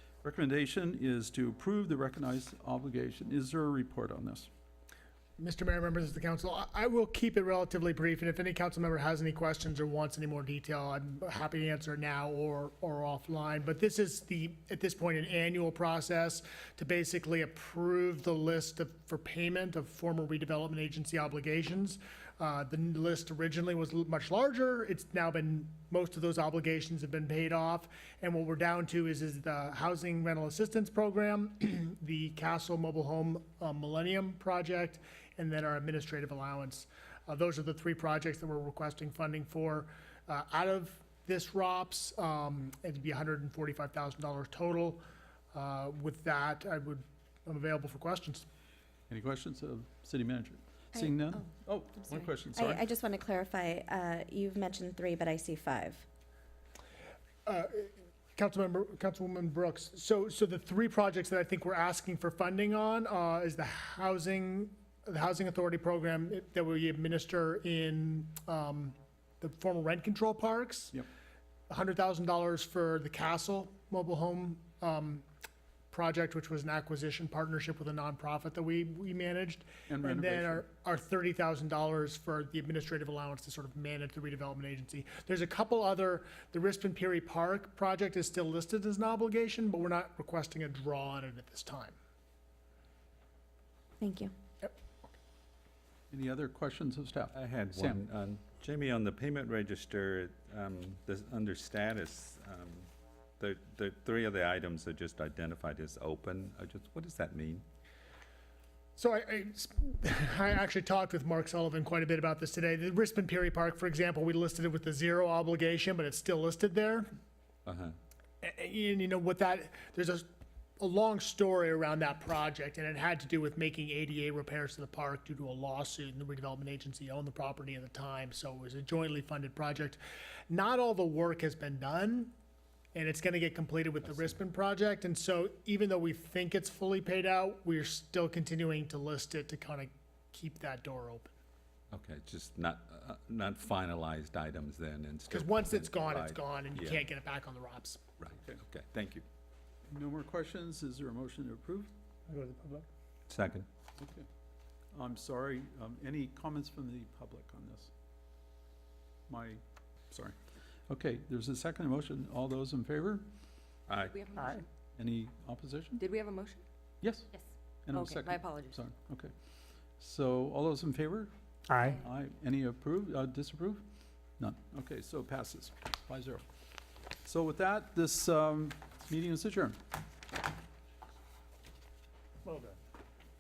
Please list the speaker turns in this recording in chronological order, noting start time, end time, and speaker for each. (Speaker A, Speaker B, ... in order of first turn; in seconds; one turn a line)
Speaker A: 0.2-4.5
Speaker B: 5.4-45.0
Speaker B: 45.5-48.5
Speaker A: 49.1-52.8
Speaker C: 50.9-51.4
Speaker C: 52.5-56.0
Speaker B: 57.5-71.0
Speaker B: 71.7-75.3
Speaker B: 75.9-92.0
Speaker A: 79.9-80.7
Speaker C: 94.0-94.3
Speaker B: 94.6-95.2
Speaker A: 96.1-98.0
Speaker D: 97.3-107.6
Speaker B: 109.0-117.1
Speaker D: 117.7-118.0
Speaker B: 118.4-120.3
Speaker B: 120.8-132.3
Speaker B: 132.9-141.3
Speaker D: 134.1-134.3
Speaker D: 141.9-147.1
Speaker B: 145.3-148.0
Speaker D: 148.2-149.2
Speaker A: 149.9-151.9
Speaker B: 152.3-152.9
Speaker D: 153.3-153.7
Speaker A: 154.0-154.3
Speaker A: 154.9-157.9
Speaker A: 159.3-160.4
Speaker A: 160.9-163.3
Speaker D: 163.9-164.2
Speaker E: 164.1-164.7
Speaker A: 164.9-166.0
Speaker E: 166.0-166.6
Speaker A: 167.0-167.3
Speaker E: 167.3-168.8
Speaker A: 167.9-169.3
Speaker A: 170.0-171.3
Speaker B: 171.7-172.0
Speaker A: 171.9-173.8
Speaker A: 174.4-176.4
Speaker A: 177.2-179.8
Speaker B: 182.5-182.8